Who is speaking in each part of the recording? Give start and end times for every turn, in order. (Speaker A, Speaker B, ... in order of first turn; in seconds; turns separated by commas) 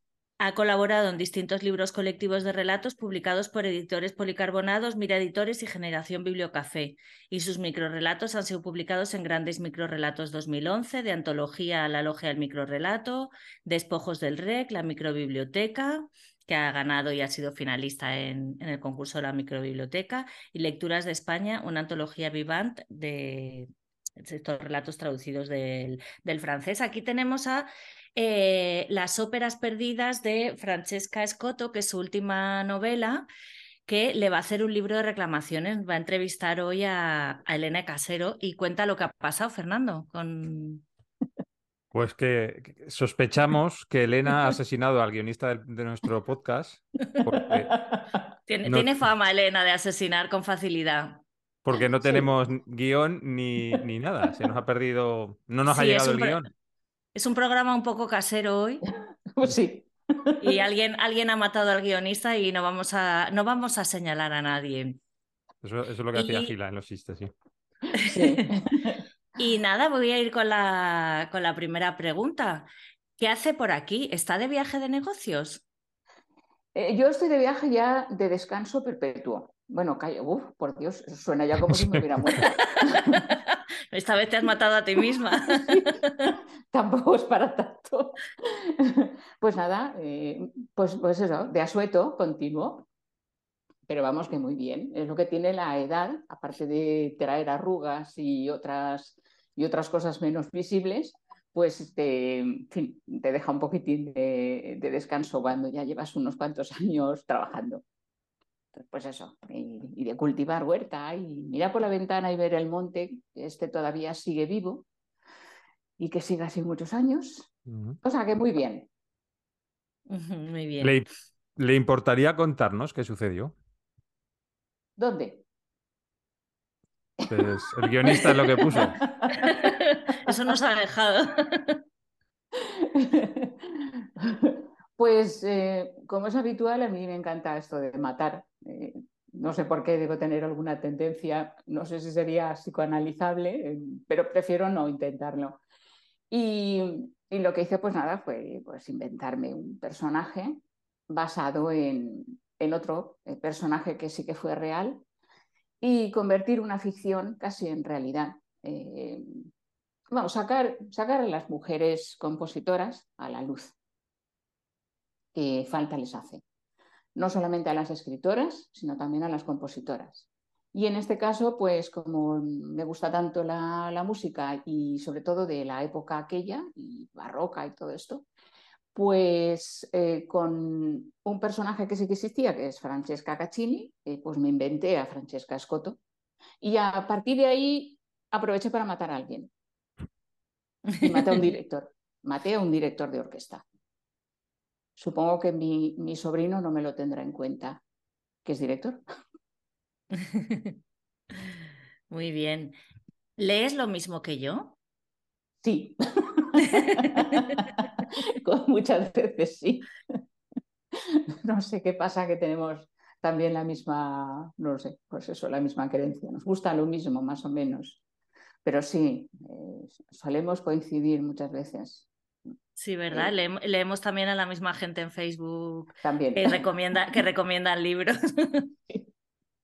Speaker A: 0.4-33.3, Speaker A: 33.9-40.8, Speaker B: 41.9-47.7, Speaker C: 47.3-48.2, Speaker A: 48.5-51.2, Speaker B: 48.6-48.9, Speaker B: 51.6-56.5, Speaker C: 52.0-52.3, Speaker A: 55.7-56.5, Speaker A: 57.1-58.8, Speaker C: 59.3-60.6, Speaker A: 60.4-65.0, Speaker B: 65.6-67.3, Speaker A: 66.1-66.5, Speaker A: 67.9-68.5, Speaker C: 68.0-69.0, Speaker A: 69.4-72.7, Speaker A: 73.2-75.6, Speaker C: 76.7-83.3, Speaker B: 81.7-82.0, Speaker A: 82.4-86.3, Speaker C: 85.5-92.9, Speaker C: 93.9-107.8, Speaker C: 108.7-114.8, Speaker C: 116.0-117.5, Speaker B: 117.7-118.0, Speaker C: 118.0-118.9, Speaker A: 120.1-121.0, Speaker B: 121.6-123.5, Speaker C: 125.0-125.4, Speaker C: 127.2-129.7, Speaker B: 127.3-129.0, Speaker A: 128.2-131.8, Speaker C: 132.5-145.6, Speaker C: 146.3-155.0, Speaker C: 155.8-159.5, Speaker C: 160.1-163.7, Speaker C: 165.3-166.4, Speaker C: 167.1-178.2, Speaker C: 178.9-186.0, Speaker C: 186.6-189.5, Speaker A: 190.9-191.4, Speaker C: 191.0-193.6, Speaker C: 195.0-197.8, Speaker C: 198.4-199.0, Speaker A: 200.2-200.8, Speaker A: 202.1-202.8, Speaker A: 203.4-204.8, Speaker C: 205.6-210.2, Speaker A: 206.6-207.7, Speaker C: 210.9-218.0, Speaker C: 218.6-222.1, Speaker A: 222.8-228.7, Speaker C: 226.0-226.6